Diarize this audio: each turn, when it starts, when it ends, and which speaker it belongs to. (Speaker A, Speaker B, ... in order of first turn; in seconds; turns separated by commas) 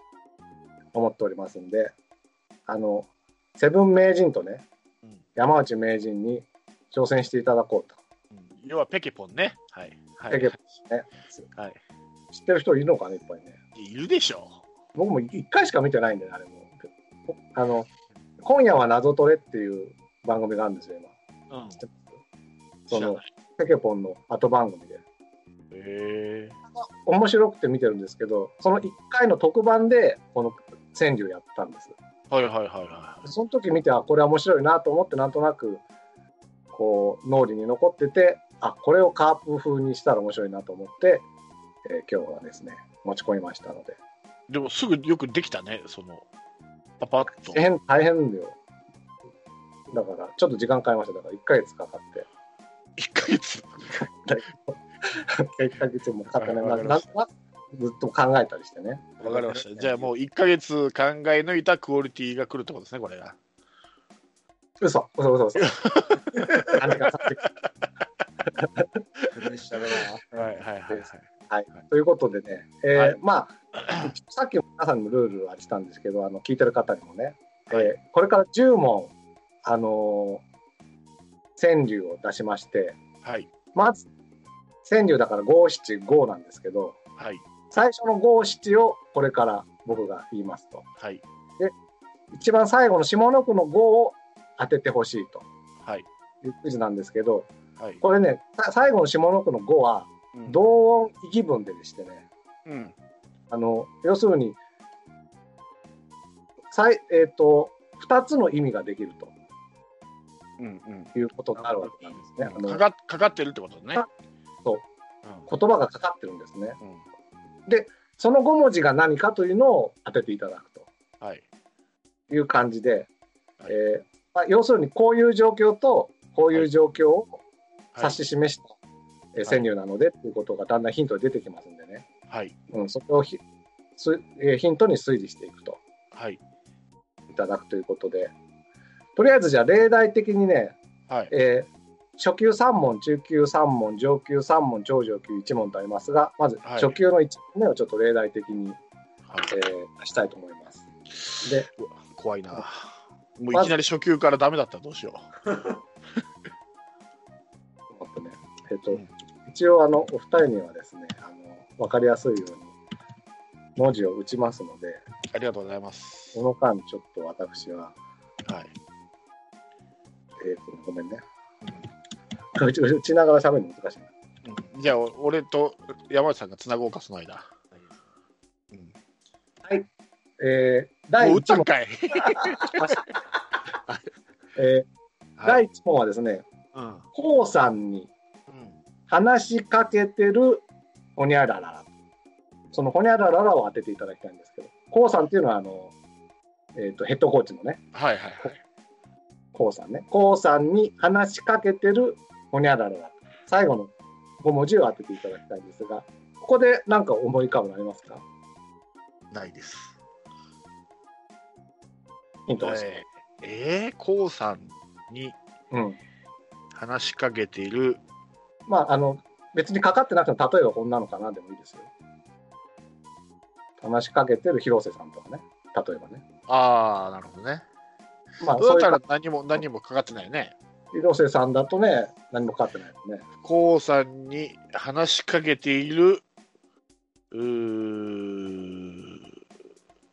Speaker A: 0.9-1.9, Speaker A: 2.7-4.7, Speaker A: 5.4-8.0, Speaker B: 8.3-10.6, Speaker A: 10.3-11.4, Speaker A: 12.3-13.6, Speaker B: 13.8-14.6, Speaker A: 14.9-17.9, Speaker A: 18.4-21.1, Speaker B: 21.5-21.8, Speaker A: 21.8-22.2, Speaker B: 22.9-23.2, Speaker A: 22.9-25.0, Speaker B: 25.7-26.6, Speaker A: 26.7-31.9, Speaker B: 32.3-33.3, Speaker A: 33.2-35.8, Speaker A: 36.7-41.3, Speaker A: 41.9-44.0, Speaker B: 44.5-46.2, Speaker B: 47.0-47.6, Speaker A: 47.4-48.6, Speaker A: 49.9-52.3, Speaker B: 53.0-54.0, Speaker A: 53.9-59.0, Speaker B: 56.4-57.1, Speaker B: 59.2-63.4, Speaker C: 59.2-60.1, Speaker A: 64.8-65.8, Speaker B: 65.6-67.5, Speaker A: 66.7-67.4, Speaker A: 68.6-68.9, Speaker C: 69.3-70.6, Speaker B: 70.3-71.2, Speaker A: 70.9-79.1, Speaker B: 73.8-74.1, Speaker A: 79.7-80.4, Speaker A: 81.6-83.0, Speaker B: 83.2-83.5, Speaker A: 83.7-84.0, Speaker A: 84.8-87.0, Speaker B: 87.2-87.4, Speaker A: 87.7-90.8, Speaker A: 92.3-95.5, Speaker A: 96.4-97.5, Speaker A: 98.0-102.3, Speaker B: 102.7-102.9, Speaker A: 103.5-104.6, Speaker A: 106.7-109.3, Speaker B: 110.6-111.1, Speaker A: 111.2-112.8, Speaker B: 112.4-114.0, Speaker A: 115.5-116.8, Speaker A: 117.7-120.9, Speaker A: 122.3-123.1, Speaker A: 123.7-127.4, Speaker B: 127.9-128.2, Speaker A: 128.0-128.7, Speaker A: 129.3-132.1, Speaker B: 132.3-132.5, Speaker A: 132.7-133.4, Speaker A: 134.0-135.8, Speaker B: 136.1-136.4, Speaker A: 137.3-138.3, Speaker A: 139.2-140.8, Speaker A: 141.3-148.8, Speaker B: 146.6-146.9, Speaker A: 149.5-150.8, Speaker B: 151.3-155.3, Speaker A: 151.4-151.7, Speaker A: 153.5-153.8, Speaker A: 157.9-162.7, Speaker A: 163.8-165.0, Speaker B: 165.3-166.4, Speaker A: 166.3-167.9, Speaker B: 168.5-168.7, Speaker A: 170.4-171.2, Speaker A: 172.6-174.1, Speaker B: 174.4-177.5, Speaker A: 180.4-181.7, Speaker B: 181.2-183.0, Speaker A: 182.3-183.1, Speaker A: 184.6-184.9, Speaker A: 185.4-186.5, Speaker B: 186.7-187.0, Speaker A: 187.1-188.1, Speaker B: 188.5-188.8, Speaker A: 189.1-190.6, Speaker A: 191.2-191.9, Speaker A: 192.7-195.9, Speaker A: 196.8-197.8, Speaker B: 197.9-198.6, Speaker A: 199.5-208.2, Speaker B: 209.3-209.9, Speaker A: 212.5-213.0, Speaker B: 212.6-215.4, Speaker A: 215.7-216.0, Speaker B: 216.7-218.0, Speaker A: 218.7-221.9, Speaker A: 223.8-226.2, Speaker B: 226.5-227.6, Speaker A: 228.4-229.0, Speaker B: 228.6-230.6, Speaker A: 230.9-233.2, Speaker B: 233.4-236.2, Speaker B: 237.3-239.3